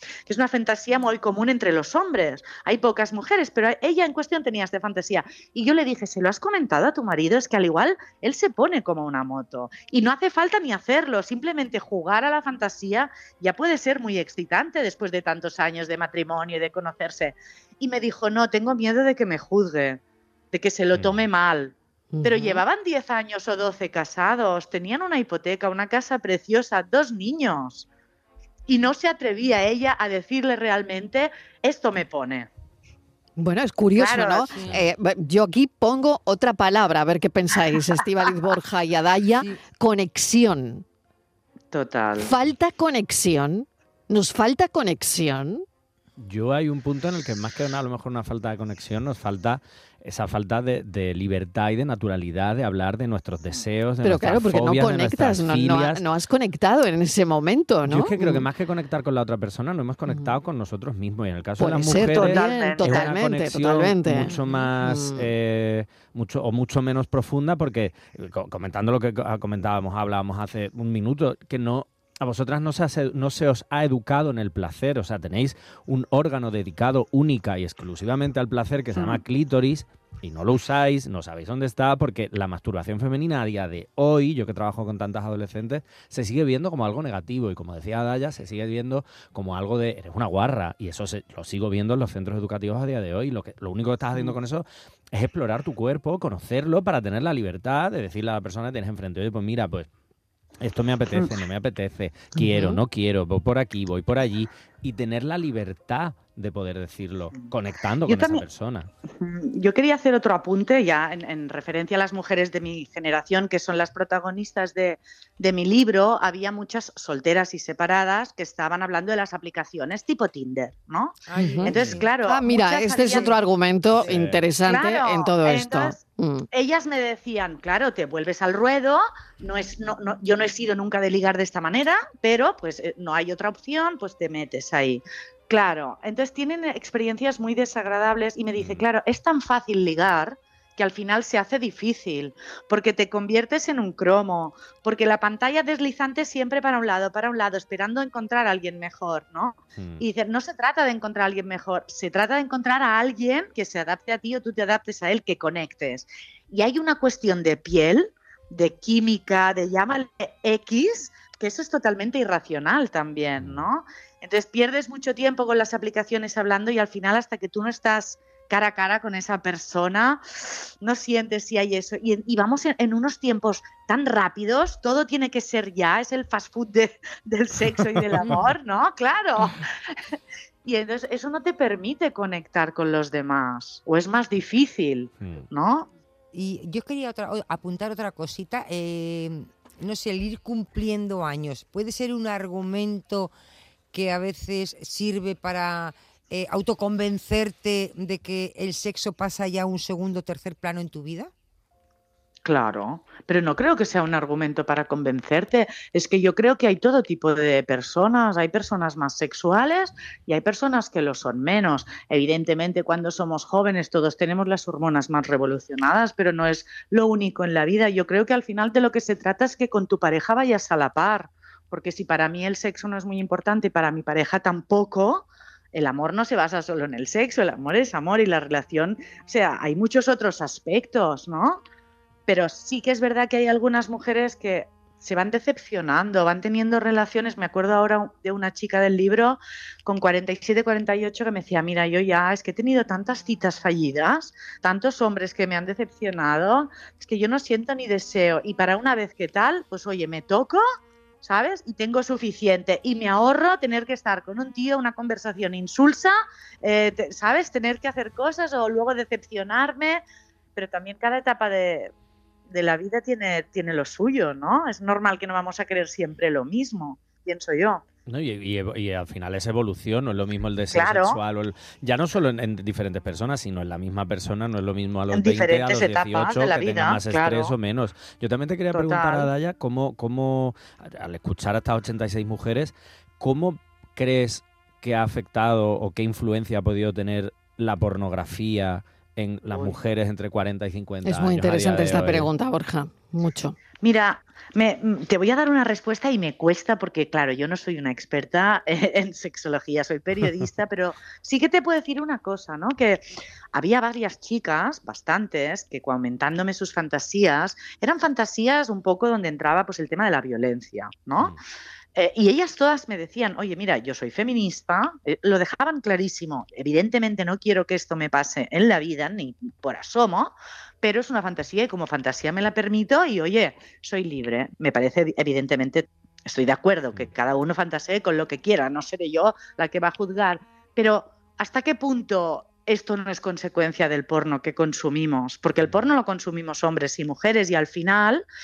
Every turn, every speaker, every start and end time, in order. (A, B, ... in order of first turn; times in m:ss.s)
0:00.3-0:20.0 A
0:20.5-0:27.9 A
0:20.9-0:21.3 B
0:22.1-0:22.6 C
0:28.7-0:32.5 A
0:33.4-0:40.8 C
0:33.9-0:34.7 A
0:41.7-0:42.3 A
0:42.2-0:45.6 C
0:46.2-0:56.0 B
0:54.0-0:58.5 C
0:57.8-1:39.9 B
1:01.6-1:05.3 C
1:02.0-1:03.1 A
1:18.9-1:19.2 A
1:40.6-1:48.9 B
1:42.4-1:42.8 C
1:48.1-1:48.4 A
1:49.1-2:03.4 A
2:01.3-2:02.1 D
2:01.4-2:06.5 C
2:04.0-2:04.4 B
2:04.6-2:59.7 A
2:18.6-2:18.8 B
2:29.8-2:30.0 B
2:43.4-2:43.7 B
3:00.6-3:05.9 A
3:06.3-3:13.3 D
3:13.9-3:21.3 D
3:22.4-3:51.6 A
3:52.3-4:10.6 A
4:11.2-4:20.0 A
4:20.6-4:21.9 A
4:22.5-4:27.8 A
4:28.1-4:52.3 B
4:30.7-4:31.2 A
4:35.1-4:37.5 A
4:38.7-4:39.3 A
4:49.5-4:49.8 A
4:51.0-4:53.6 C
4:53.8-5:11.4 A
5:11.9-5:38.2 A
5:35.6-5:35.9 B